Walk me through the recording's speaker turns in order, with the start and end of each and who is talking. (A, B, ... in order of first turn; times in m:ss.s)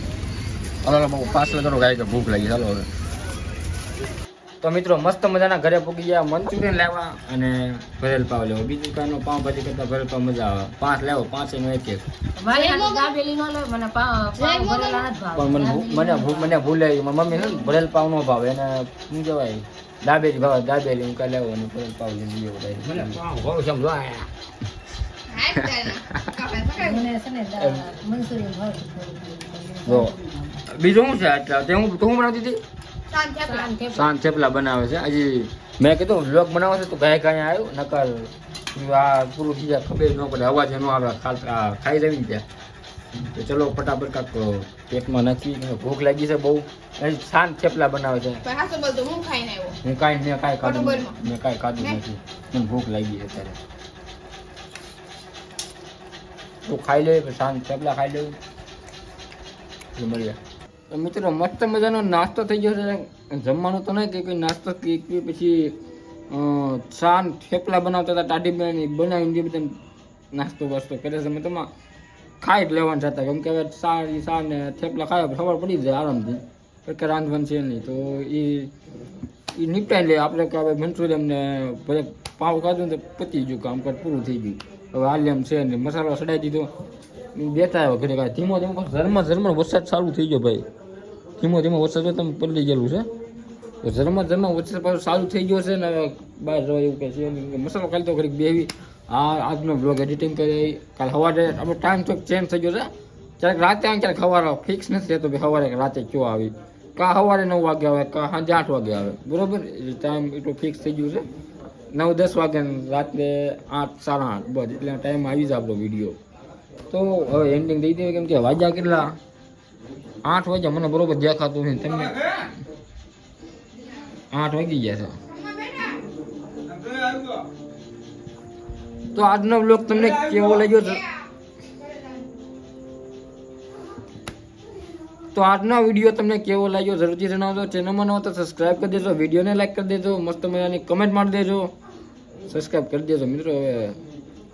0:00.8-0:02.9 A
0:04.6-0:12.1 A
0:12.4-0:16.6 B
0:12.5-0:13.1 C
0:14.4-0:15.1 C
0:15.3-0:24.3 A
0:17.4-0:17.6 B
0:25.3-0:27.1 C
0:26.8-0:30.4 B
0:27.6-0:27.9 A
0:29.8-0:32.6 A
0:33.1-0:33.8 C
0:33.4-0:34.0 B
0:33.9-0:42.4 A
0:43.3-0:48.4 A
0:48.4-0:49.8 C
0:49.8-0:53.6 A
0:50.6-0:51.2 C
0:56.6-0:58.4 A
0:59.9-1:00.4 A
1:00.9-1:05.8 A
1:06.3-1:09.8 A
1:10.3-1:11.7 A
1:12.4-1:18.7 A
1:19.5-1:26.7 A
1:27.4-1:30.7 A
1:31.4-1:33.1 A
1:33.8-1:42.9 A
1:43.4-1:51.2 A
1:51.9-1:56.2 A
1:56.9-1:59.1 A
2:00.2-2:02.2 A
2:04.3-2:05.2 A
2:05.3-2:06.0 C
2:09.1-2:11.0 A
2:15.3-2:21.7 A
2:22.5-2:24.0 A